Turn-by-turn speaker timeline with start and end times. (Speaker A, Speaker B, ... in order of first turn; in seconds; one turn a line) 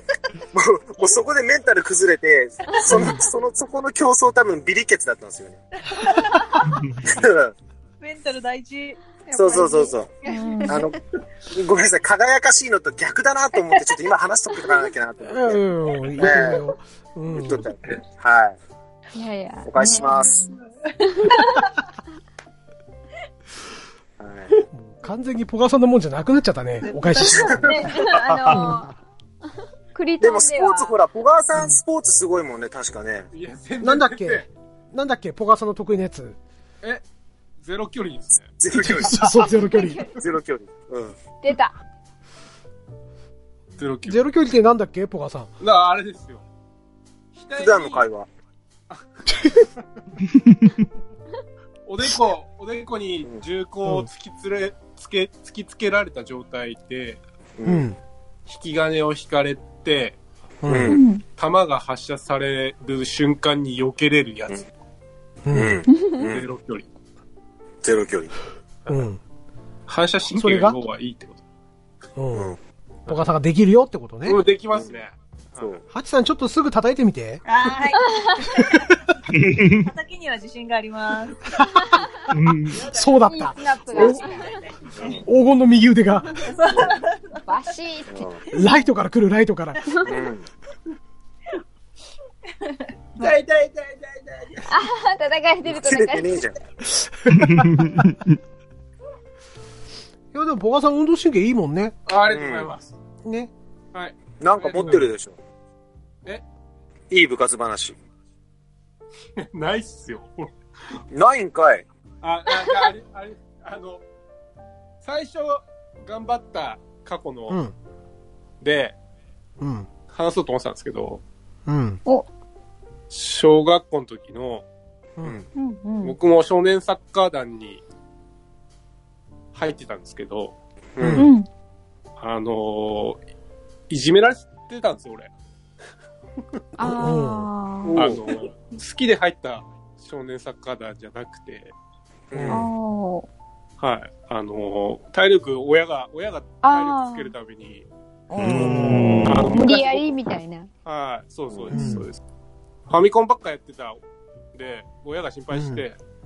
Speaker A: 0.5-5.6
Speaker B: 2.9-3.2
Speaker C: 5.9-6.8
Speaker D: 6.7-7.0
Speaker A: 7.0-7.5
Speaker C: 8.0-10.9
Speaker A: 9.3-10.1
Speaker E: 10.3-10.8
Speaker A: 10.7-11.0
Speaker A: 11.5-15.7
Speaker B: 15.2-17.7
Speaker A: 16.2-16.6
Speaker A: 17.3-18.6
Speaker E: 19.1-20.5
Speaker A: 19.6-20.4
Speaker C: 20.0-21.6
Speaker E: 21.2-21.7
Speaker A: 24.2-24.5
Speaker B: 24.7-27.9
Speaker C: 26.8-27.9
Speaker E: 27.1-28.9
Speaker A: 27.4-27.8
Speaker D: 28.1-28.8
Speaker B: 28.5-28.9
Speaker E: 29.9-30.9
Speaker A: 30.2-33.3
Speaker F: 33.3-34.5
Speaker B: 33.8-36.4
Speaker F: 37.6-38.5
Speaker A: 38.6-39.5
Speaker B: 38.8-40.0
Speaker E: 39.5-40.1
Speaker A: 40.2-41.2
Speaker E: 41.4-41.8
Speaker F: 43.8-44.2
Speaker B: 44.1-45.5
Speaker F: 45.6-46.4
Speaker F: 47.4-48.1
Speaker A: 47.6-48.3
Speaker B: 49.3-49.7
Speaker D: 50.4-50.8
Speaker F: 51.9-57.2
Speaker A: 57.6-57.9
Speaker B: 57.6-58.0
Speaker F: 58.5-60.2
Speaker B: 60.6-61.0
Speaker A: 60.7-61.0
Speaker E: 60.9-61.2
Speaker F: 61.4-64.7
Speaker B: 65.4-65.8
Speaker A: 65.5-66.5
Speaker E: 66.0-66.3
Speaker F: 66.3-66.9
Speaker A: 67.8-68.3
Speaker B: 68.9-69.2
Speaker F: 69.9-71.4
Speaker B: 70.3-70.8
Speaker B: 72.2-72.6
Speaker B: 73.1-74.4
Speaker F: 74.2-75.8
Speaker B: 75.9-77.4
Speaker C: 77.5-78.8
Speaker B: 78.6-79.0
Speaker D: 79.3-79.9
Speaker C: 79.6-81.6
Speaker B: 81.5-82.1
Speaker D: 82.3-82.9
Speaker B: 82.7-84.3
Speaker C: 82.7-83.2
Speaker E: 83.3-84.6
Speaker C: 83.8-85.2
Speaker A: 85.0-85.2
Speaker B: 85.2-86.5
Speaker C: 86.5-87.2
Speaker A: 86.6-87.0
Speaker E: 87.5-88.6
Speaker A: 88.1-88.4
Speaker B: 88.5-89.8
Speaker A: 90.0-90.5
Speaker C: 93.2-93.4
Speaker F: 93.2-94.7
Speaker E: 94.7-96.4
Speaker A: 95.7-96.6
Speaker B: 97.0-98.2
Speaker D: 97.3-98.4
Speaker B: 100.3-102.0
Speaker F: 102.1-102.9
Speaker A: 102.3-102.7
Speaker B: 103.2-103.5
Speaker F: 103.9-105.1
Speaker A: 104.4-105.4
Speaker A: 107.1-108.0
Speaker F: 109.4-110.5
Speaker A: 111.1-111.8
Speaker F: 112.2-114.0
Speaker F: 115.0-117.6
Speaker B: 117.5-117.7
Speaker F: 118.6-119.0
Speaker B: 119.6-119.9
Speaker F: 120.1-121.2
Speaker B: 121.7-122.0
Speaker F: 123.1-124.7
Speaker E: 125.6-126.2
Speaker F: 126.0-127.8
Speaker F: 129.5-130.6
Speaker A: 131.0-131.3
Speaker B: 131.0-131.3
Speaker E: 131.2-131.5
Speaker F: 132.2-133.2
Speaker F: 133.9-135.3
Speaker B: 136.8-137.5
Speaker E: 136.8-138.1
Speaker A: 137.8-138.2
Speaker F: 137.9-141.7
Speaker A: 142.3-142.7
Speaker E: 142.5-143.3
Speaker F: 143.8-147.9
Speaker E: 146.6-147.3
Speaker B: 148.3-149.5
Speaker D: 148.4-149.6
Speaker F: 148.6-150.2
Speaker E: 149.5-150.7
Speaker F: 150.8-152.2
Speaker B: 151.7-152.1
Speaker F: 152.9-154.0
Speaker F: 154.5-156.0
Speaker B: 155.5-155.8